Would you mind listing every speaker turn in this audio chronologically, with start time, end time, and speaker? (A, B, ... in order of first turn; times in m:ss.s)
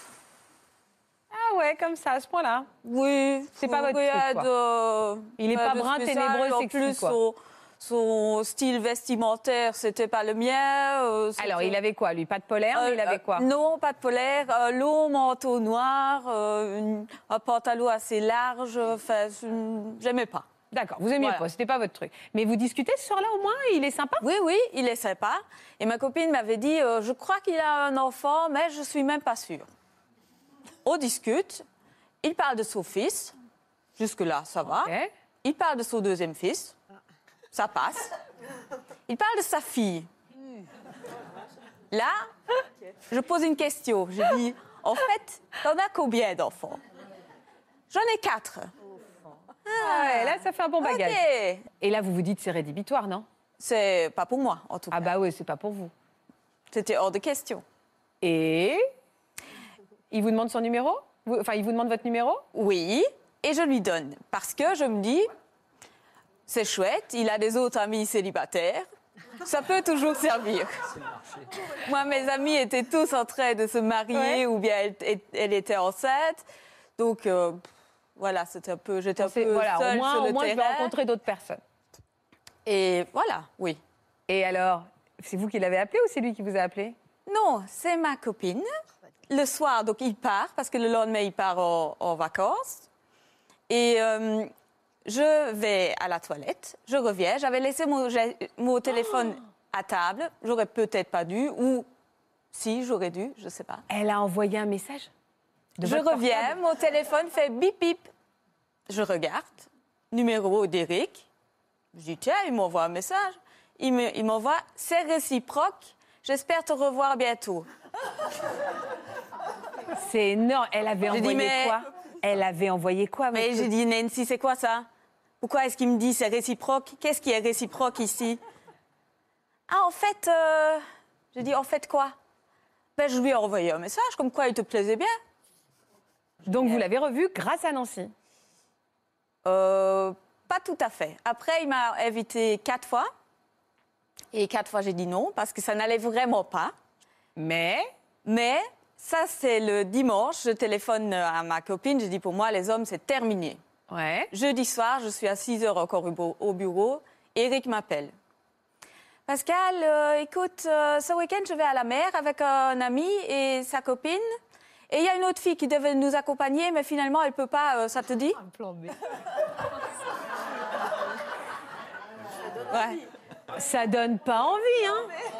0:01.3-0:02.7 A
0:02.8-0:11.8 B
0:03.6-0:04.5 A
0:05.4-0:07.2 A
0:11.4-0:13.5 A
0:12.8-0:20.5 B
0:20.7-0:24.2 A
0:21.2-0:21.4 B
0:24.2-0:29.7 B
0:30.8-0:31.6 B
0:32.2-0:33.3 B
0:34.0-0:36.8 B
0:34.7-0:35.1 A
0:37.5-0:38.1 B
0:39.1-0:40.1 B
0:41.9-0:42.2 B
0:43.1-0:46.8 B
0:47.9-0:48.7 B
0:49.7-0:51.6 B
0:49.8-0:51.2 A
0:51.8-0:53.3 A
0:53.6-0:55.1 B
0:54.9-0:55.9 A
0:56.7-0:57.6 B
0:58.2-0:58.9 A
1:00.1-1:02.4 A
1:02.5-1:05.3 B
1:06.5-1:08.9 B
1:09.4-1:10.7 B
1:11.7-1:16.4 B
1:14.1-1:14.4 A
1:17.0-1:17.6 B
1:18.2-1:20.9 B
1:19.2-1:21.6 A
1:22.7-1:23.8 B
1:24.3-1:27.0 A
1:27.3-1:28.7 B
1:29.3-1:32.9 B
1:33.7-1:34.5 B
1:35.0-1:41.9 B
1:42.5-1:43.8 B
1:43.9-1:45.1 A
1:45.8-1:46.6 A
1:45.8-1:48.1 B
1:48.9-1:51.3 B
1:51.9-1:57.7 B
2:00.0-2:03.7 A
2:01.1-2:01.8 B
2:03.3-2:04.9 B
2:05.4-2:08.4 B
2:09.7-2:12.2 B
2:13.0-2:15.2 B
2:16.5-2:18.1 A
2:19.4-2:23.1 B
2:24.3-2:26.7 B
2:27.4-2:27.9 A
2:28.2-2:33.6 B
2:33.9-2:34.3 A
2:34.3-2:38.1 B
2:39.3-2:44.3 B
2:44.9-2:48.4 B
2:52.7-2:53.0 B
2:53.6-2:55.1 A